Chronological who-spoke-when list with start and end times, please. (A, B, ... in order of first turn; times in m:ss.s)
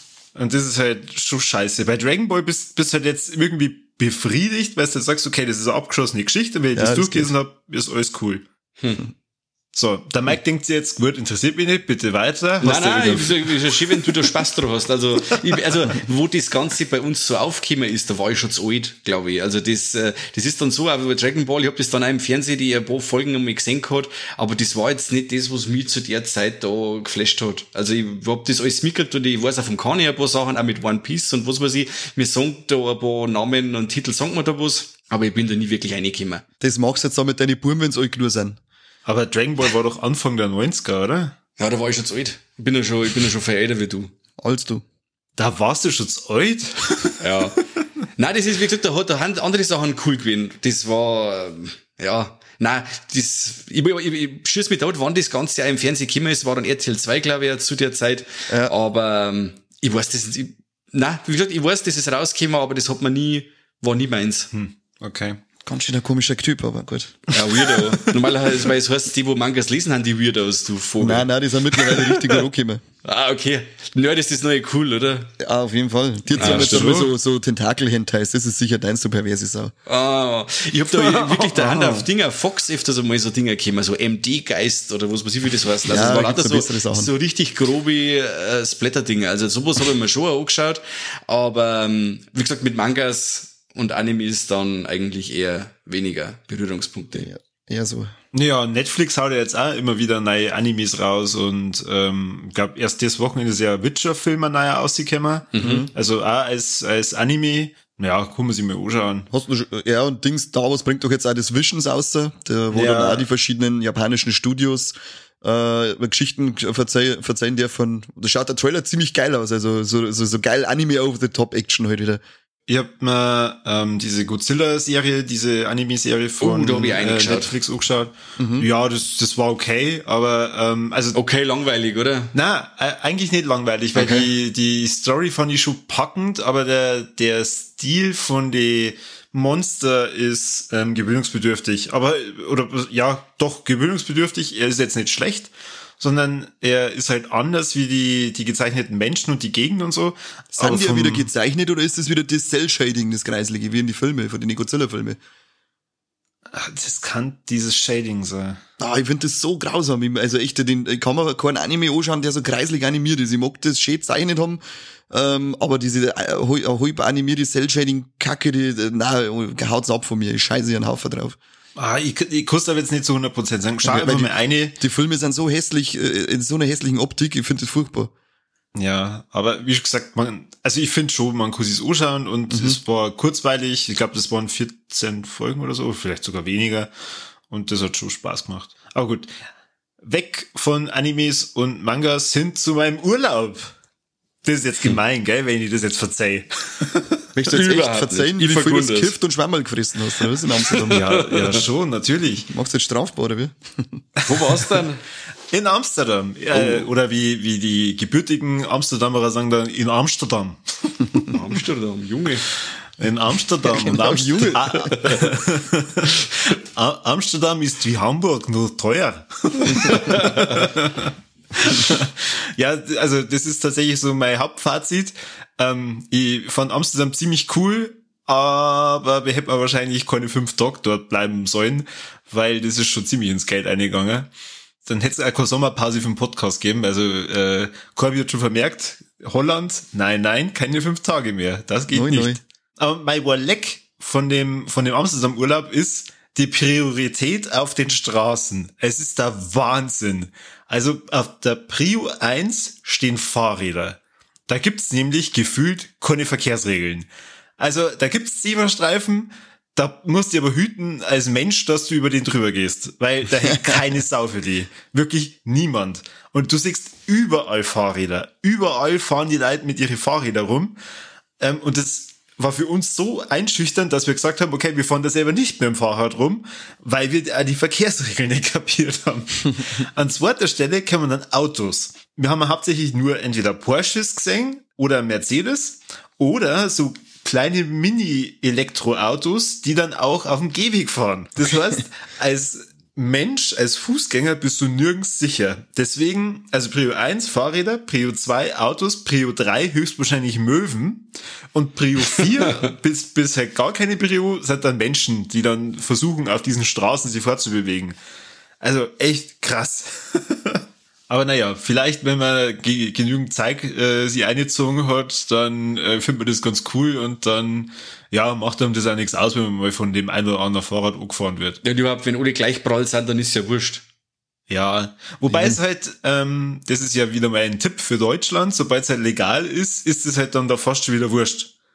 0:00.4-0:08.4 A
0:06.8-0:07.3 B
0:08.8-0:09.1 C
0:09.7-0:14.3 A
0:12.6-0:36.4 C
0:36.6-0:38.6 B
0:39.0-0:41.4 A
0:41.6-0:44.1 C
0:44.4-0:44.8 B
0:45.4-0:47.5 A
0:47.2-0:47.6 C
0:48.2-1:04.5 C
0:58.5-0:58.7 B
1:04.5-1:05.4 A
1:05.7-1:07.3 B
1:07.3-1:12.3 C
1:11.0-1:12.8 B
1:13.0-1:15.3 C
1:15.4-1:19.7 B
1:16.4-1:17.1 C
1:16.4-1:17.1 A
1:19.9-1:37.3 C
1:21.0-1:22.1 A
1:25.9-1:27.1 B
1:37.2-1:38.1 B
1:38.3-1:49.3 A
1:45.6-1:45.9 C
1:45.6-1:45.9 B
1:49.3-2:02.2 B
1:52.7-1:53.3 A
2:02.7-2:11.2 A
2:06.4-2:07.5 C
2:08.4-2:08.7 B
2:11.1-2:12.3 C
2:12.3-2:31.3 A
2:14.0-2:14.3 B
2:30.6-2:35.2 B
2:36.5-2:38.6 A
2:38.8-2:51.4 B
2:51.8-2:54.8 A
2:53.8-2:58.1 B
2:58.8-3:06.9 A
3:02.5-3:02.8 B
3:07.5-3:09.3 A
3:10.0-3:13.7 A
3:14.4-3:17.0 A
3:17.4-3:21.0 B
3:17.5-3:19.2 C
3:20.6-3:21.6 C
3:20.9-3:22.5 A
3:22.5-3:24.0 B
3:24.3-3:25.0 C
3:24.3-3:24.7 A
3:25.5-3:31.3 A
3:26.5-3:26.9 B
3:31.2-3:32.4 C
3:33.0-3:54.3 A
3:33.6-3:35.3 B
3:39.7-3:40.1 B
3:39.8-3:40.5 C
3:54.8-4:30.8 A
4:01.9-4:02.4 B
4:31.4-5:08.0 A
5:08.6-5:21.6 A
5:21.6-5:23.8 C
5:24.5-5:31.5 A
5:25.3-5:25.6 B